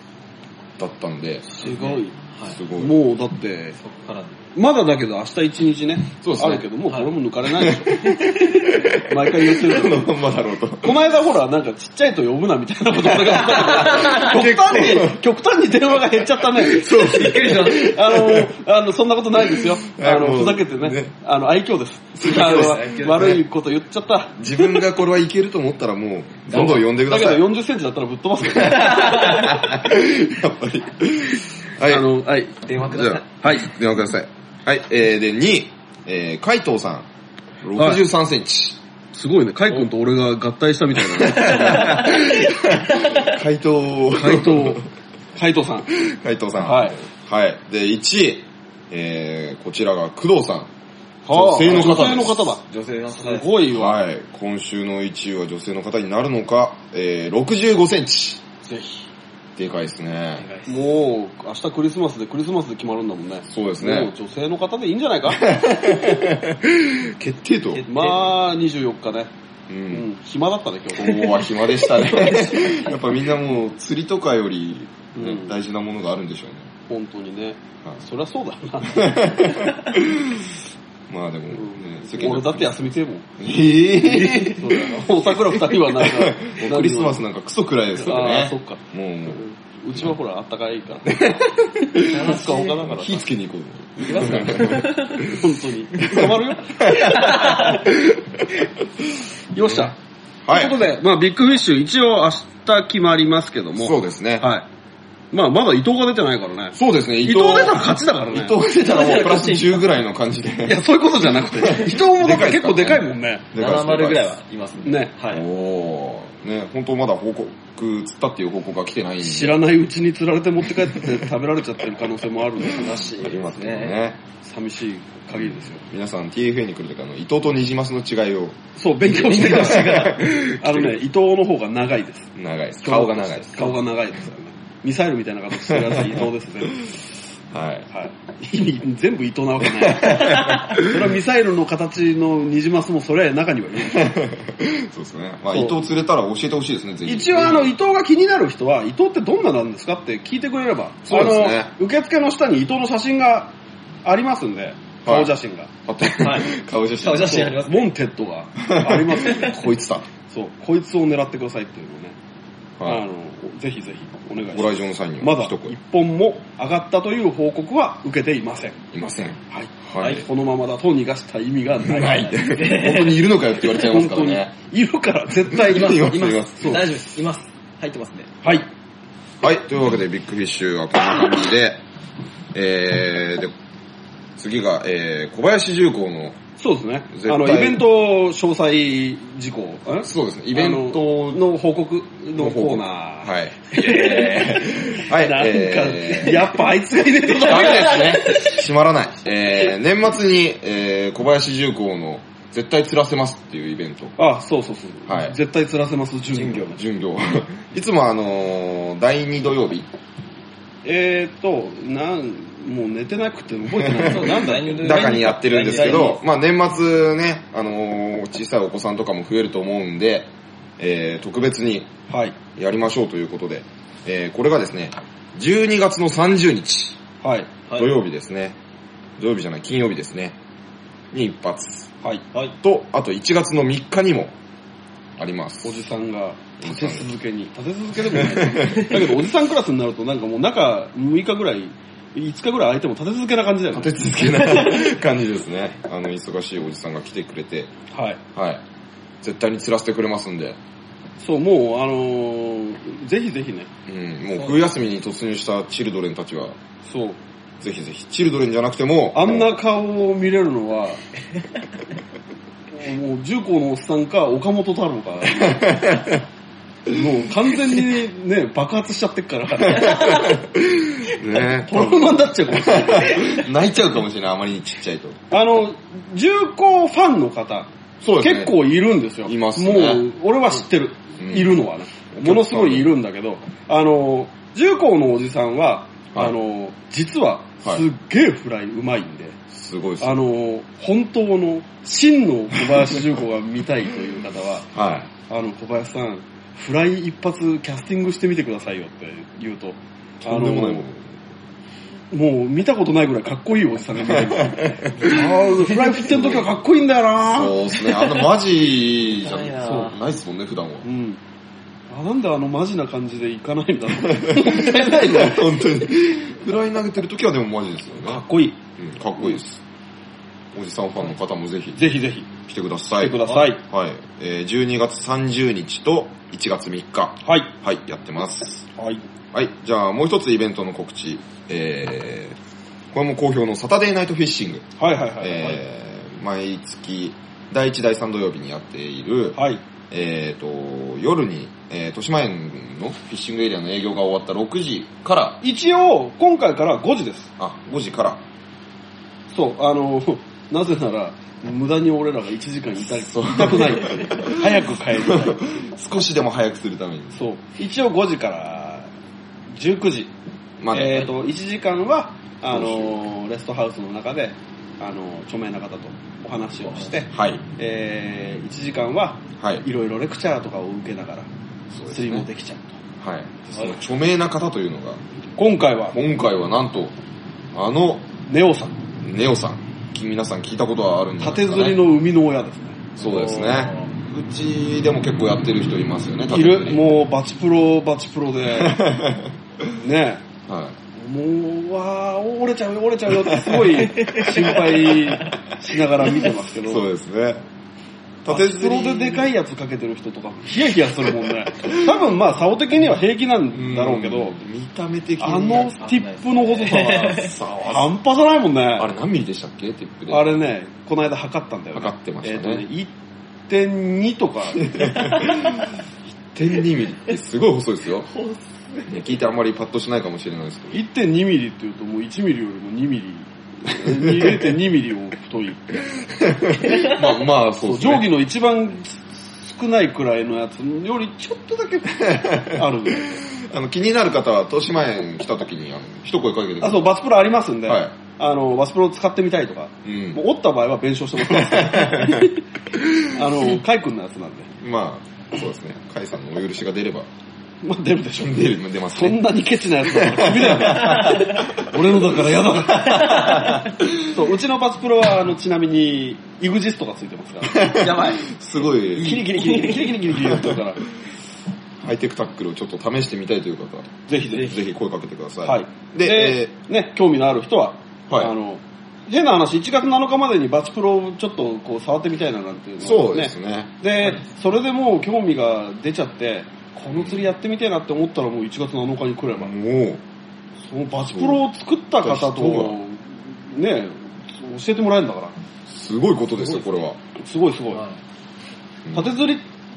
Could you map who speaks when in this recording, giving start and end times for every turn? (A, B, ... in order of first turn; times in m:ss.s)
0:00.8-0:01.4 A
0:01.5-0:02.2 B
0:01.6-0:02.6 C
0:02.4-0:03.0 A
0:02.7-0:03.8 B
0:03.8-0:04.4 C
0:04.5-0:08.3 B
0:06.2-0:06.6 A
0:07.5-0:11.0 A
0:09.0-0:10.1 B
0:10.8-0:24.7 B
0:13.0-0:15.2 A
0:13.9-0:14.3 C
0:16.4-0:18.5 A
0:16.9-0:17.9 C
0:19.4-0:21.1 A
0:22.2-0:22.8 A
0:22.2-0:23.4 C
0:24.4-0:27.4 A
0:26.5-0:29.6 B
0:28.5-0:32.0 A
0:31.8-0:32.6 B
0:32.6-0:33.2 C
0:32.8-0:37.1 A
0:33.4-0:33.7 B
0:37.6-0:38.8 A
0:37.8-0:38.0 B
0:39.1-0:42.1 B
0:41.1-0:44.8 A
0:41.5-0:42.2 C
0:43.0-0:43.3 C
0:44.1-0:44.8 B
0:45.4-0:45.9 B
0:45.9-0:50.7 A
0:46.6-0:47.0 B
0:51.2-0:54.0 B
0:51.3-0:52.5 A
0:51.7-0:53.6 C
0:53.7-0:58.4 A
0:58.6-0:59.1 B
0:59.6-1:00.4 A
1:00.4-1:00.8 C
1:00.7-1:05.5 B
1:03.5-1:04.1 A
1:05.4-1:07.8 A
1:07.8-1:08.3 C
1:07.9-1:09.3 B
1:09.7-1:10.0 A
1:09.9-1:11.3 B
1:10.9-1:16.7 A
1:12.0-1:12.8 C
1:15.1-1:15.5 B
1:16.9-1:19.6 B
1:18.8-1:20.5 A
1:21.1-1:22.7 A
1:21.5-1:23.2 B
1:23.4-1:29.4 A
1:24.1-1:24.4 C
1:24.3-1:27.2 B
1:28.0-1:31.4 B
1:31.0-1:35.4 A
1:31.9-1:33.2 B
1:32.1-1:32.8 C
1:34.0-1:35.3 C
1:35.2-1:37.8 B
1:36.0-1:38.6 A
1:37.0-1:37.8 C
1:39.5-1:39.9 B
1:40.4-1:40.8 A
1:40.5-1:44.6 B
1:43.8-1:44.5 A
1:45.3-1:48.6 B
1:46.7-1:50.8 A
1:48.7-1:49.8 C
1:50.6-1:53.4 B
1:51.4-1:54.4 A
1:53.5-1:55.4 C
1:54.8-1:55.1 B
1:55.3-1:59.6 A
1:59.2-2:03.4 B
2:01.0-2:01.2 A
2:03.1-2:04.2 A
2:03.3-2:04.0 C
2:04.4-2:05.8 B
2:05.3-2:08.6 A
2:08.8-2:16.9 B
2:09.1-2:10.3 C
2:09.2-2:10.9 A
2:12.4-2:13.8 A
2:15.7-2:16.3 A
2:17.5-2:17.9 A
2:17.9-2:24.1 B
2:19.8-2:21.0 A
2:23.9-2:27.7 A
2:27.0-2:33.5 B
2:31.0-2:31.7 A
2:34.0-2:35.7 B
2:35.0-2:35.3 A
2:35.8-2:37.5 A
2:36.2-2:37.9 C
2:37.2-2:39.6 B
2:38.6-2:40.1 A
2:39.3-2:39.5 C
2:40.3-2:42.1 B
2:42.8-2:48.8 B
2:44.5-2:45.7 A
2:48.9-2:50.3 A
2:49.5-2:52.5 B
2:51.8-2:54.5 A
2:52.1-2:53.2 C
2:53.6-2:56.9 B
2:55.5-2:56.8 A
2:55.7-2:58.4 C
2:59.4-3:01.8 A
3:02.5-3:03.5 A
3:04.4-3:06.4 A
3:06.6-3:18.5 B
3:07.1-3:07.8 A
3:10.0-3:11.1 A
3:12.3-3:16.5 A
3:17.3-3:24.1 A
3:17.7-3:18.4 C
3:24.2-3:26.8 B
3:25.1-3:25.3 A
3:26.3-3:26.7 C
3:26.7-3:29.9 A
3:30.8-3:36.1 B
3:33.7-3:41.9 A
3:34.0-3:36.2 C
3:42.1-3:42.4 B
3:42.5-3:47.0 A
3:47.2-3:47.5 B
3:47.7-3:48.6 A
3:49.2-3:50.4 A
3:51.1-3:51.9 A
3:52.6-3:54.3 A
3:55.2-3:55.8 A
3:55.6-4:04.0 B
3:56.6-3:57.0 A
3:58.1-3:59.0 A
4:03.7-4:07.7 A
4:07.9-4:08.2 B
4:08.3-4:08.6 A
4:09.2-4:10.6 A
4:11.2-4:13.7 B
4:13.9-4:16.6 A
4:16.9-4:17.2 B
4:17.6-4:19.5 A
4:19.1-4:21.0 B
4:22.7-4:25.8 B
4:25.3-4:26.2 A
4:26.9-4:30.3 B
4:29.7-4:35.2 A
4:31.6-4:33.4 B
4:35.3-4:49.4 B
4:38.0-4:38.5 A
4:39.2-4:40.0 A
4:41.2-4:41.5 A
4:42.1-4:42.9 A
4:49.5-4:50.2 A
4:50.0-4:54.7 B
4:54.7-4:55.1 A
4:55.3-5:00.8 B
5:00.2-5:01.0 A
5:02.1-5:07.6 B
5:04.0-5:05.2 A
5:05.9-5:06.5 A
5:07.2-5:10.8 A
5:09.1-5:10.1 C
5:09.3-5:09.9 B
5:10.8-5:11.2 B
5:11.9-5:15.6 B
5:14.0-5:18.2 A
5:18.0-5:18.6 B
5:18.8-5:19.6 A
5:20.5-5:21.8 A
5:21.7-5:22.3 B
5:22.4-5:28.6 A
5:23.0-5:23.6 B
5:27.2-5:27.5 B
5:28.7-5:29.0 B
5:29.3-5:32.4 A
5:32.9-5:34.6 A
5:34.8-5:35.6 B
5:35.2-5:39.4 A
5:39.3-5:39.6 B
5:39.9-5:45.4 A
5:45.4-5:47.3 B
5:47.4-5:48.2 A
5:49.3-5:55.6 B
5:53.1-5:57.2 A
5:57.1-5:58.9 B
5:59.5-6:00.1 B
6:00.6-6:01.1 A
6:00.7-6:12.8 B
6:02.5-6:03.0 A
6:07.1-6:07.4 A
6:09.4-6:09.6 A
6:11.8-6:12.2 A
6:13.0-6:15.0 A
6:15.4-6:16.0 B
6:15.9-6:16.9 A
6:17.5-6:18.1 A
6:18.3-6:18.8 B
6:19.0-6:21.8 A
6:21.2-6:23.0 B
6:23.0-6:26.8 A
6:23.0-6:23.8 C
6:26.3-6:28.8 B
6:28.5-6:29.8 A
6:29.8-6:30.2 B
6:30.5-6:30.8 A
6:31.0-6:36.8 B
6:33.2-6:34.7 A
6:33.9-6:35.3 C
6:36.6-6:37.4 A
6:38.2-6:39.3 A
6:38.3-6:44.4 B
6:43.5-6:45.7 A
6:45.2-6:48.9 B
6:45.8-6:47.4 C
6:47.2-6:47.9 A
6:48.8-6:50.3 A
6:50.1-6:52.9 B
6:51.7-6:52.6 A
6:53.5-6:55.2 B
6:54.6-6:58.1 A
6:58.1-6:59.2 C
6:58.8-7:00.8 A
7:00.7-7:06.0 B
7:03.8-7:04.5 A
7:06.1-7:08.1 A
7:07.6-7:13.1 B
7:12.0-7:16.9 A
7:16.6-7:22.4 B
7:17.7-7:17.9 A
7:19.8-7:20.2 A
7:21.2-7:23.2 A
7:23.0-7:24.5 B
7:24.6-7:27.1 A
7:27.6-7:37.8 B
7:28.2-7:29.2 A
7:29.8-7:32.0 A
7:32.7-7:33.9 A
7:33.0-7:33.3 C
7:37.4-7:40.6 A
7:37.7-7:38.4 C
7:38.9-7:39.9 C
7:39.0-7:40.8 B
7:41.8-7:46.5 A
7:44.1-7:44.5 B
7:45.4-7:59.5 B
7:52.8-7:53.7 A
7:56.9-7:57.2 A
7:59.3-8:00.0 A
8:00.6-8:05.3 B
8:01.1-8:01.4 A
8:02.0-8:02.8 A
8:05.7-8:07.0 A
8:07.2-8:07.8 B
8:08.8-8:09.1 A
8:08.9-8:09.4 B